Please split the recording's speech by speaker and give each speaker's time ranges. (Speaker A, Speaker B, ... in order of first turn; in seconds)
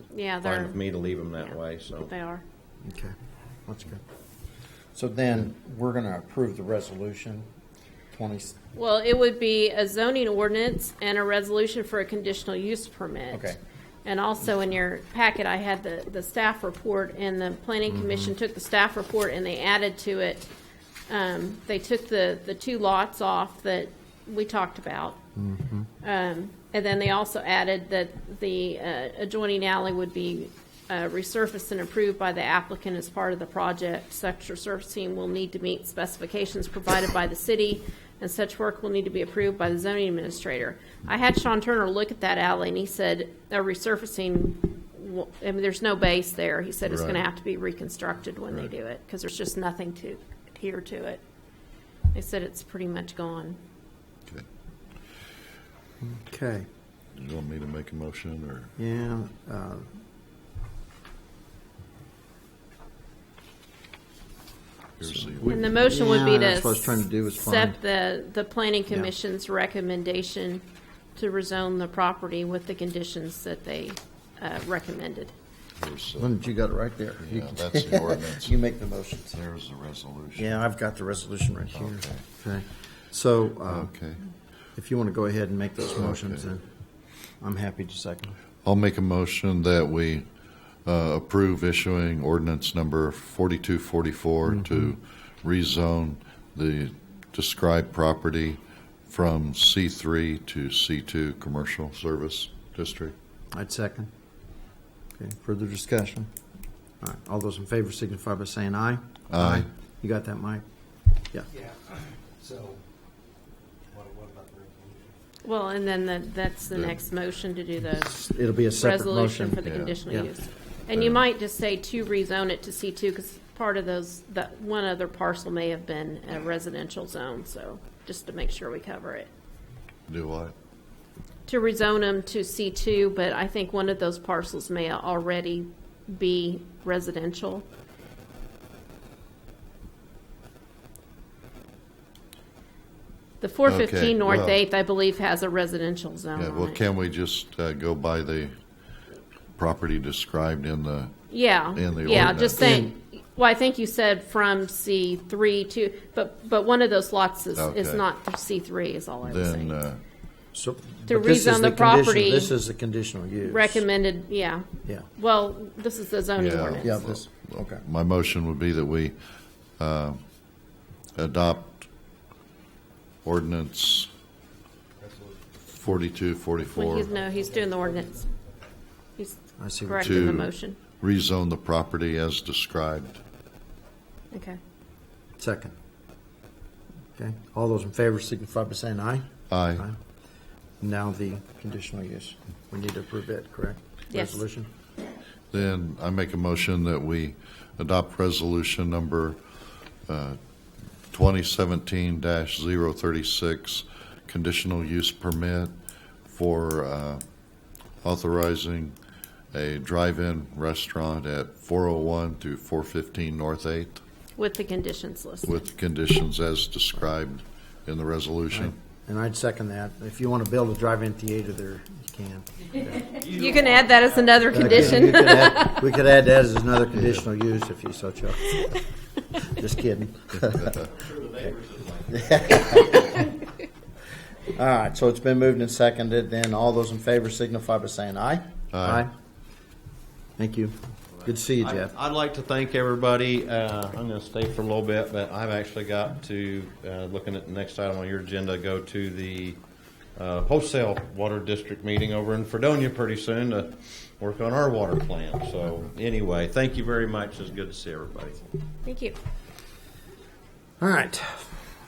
Speaker A: 0.1-0.8, 1.4-2.4, 8.7-13.5, 14.0-20.5, 21.1-25.2, 26.0-51.2, 52.1-53.6, 65.4-70.6, 71.2-75.3, 115.4-129.3, 131.5-137.7, 143.4-146.8, 151.3-159.7, 161.1-162.5, 163.4-166.9, 176.7-178.3, 179.2-180.8, 184.3-184.6, 194.1-194.4, 214.4-215.6, 223.2-225.9, 258.8-259.1
Speaker B: 0.4-2.1, 223.0-225.3, 230.8-233.2, 241.2-249.6, 250.2-258.4
Speaker C: 2.8-3.1, 3.6-4.0, 4.9-7.4, 8.1-8.5, 13.3-13.6, 17.9-18.3, 25.4-25.9, 56.0-56.6, 58.8-59.9, 65.0-67.8, 76.2-79.3, 80.3-86.7, 87.4-88.3, 94.5-94.9, 103.5-104.1, 105.2-106.3, 107.0-110.6, 118.0-120.3, 152.5-152.9, 160.5-163.9, 166.8-167.8, 179.6-180.2, 185.4-185.7, 187.2-190.0, 190.8-194.7, 218.5-223.1, 224.5-228.7, 229.4-230.8, 232.1-233.0, 234.5-239.1, 240.4-241.9, 260.8-261.5
Speaker D: 46.9-47.2, 57.1-58.7, 65.0-65.9, 75.8-76.3, 77.2-78.5, 79.3-80.5, 81.7-82.2, 83.7-84.2, 86.0-86.4, 88.6-90.2, 90.8-103.1, 109.3-109.7, 119.6-120.3, 120.9-121.2, 130.1-130.5, 143.6-144.6, 146.3-148.5, 149.6-151.1, 151.7-152.6, 157.6-158.0, 159.2-160.0, 166.3-169.2, 169.8-170.2, 171.2-171.9, 173.2-174.1, 175.7-177.1, 180.0-183.2, 189.5-189.8, 195.5-199.4, 200.1-200.4, 201.1-205.7, 206.3-207.2, 208.0-208.9, 209.5-214.0, 215.4-218.7, 238.7-239.1
Speaker E: 111.5-112.8, 113.9-115.1, 175.0-175.3, 177.0-178.6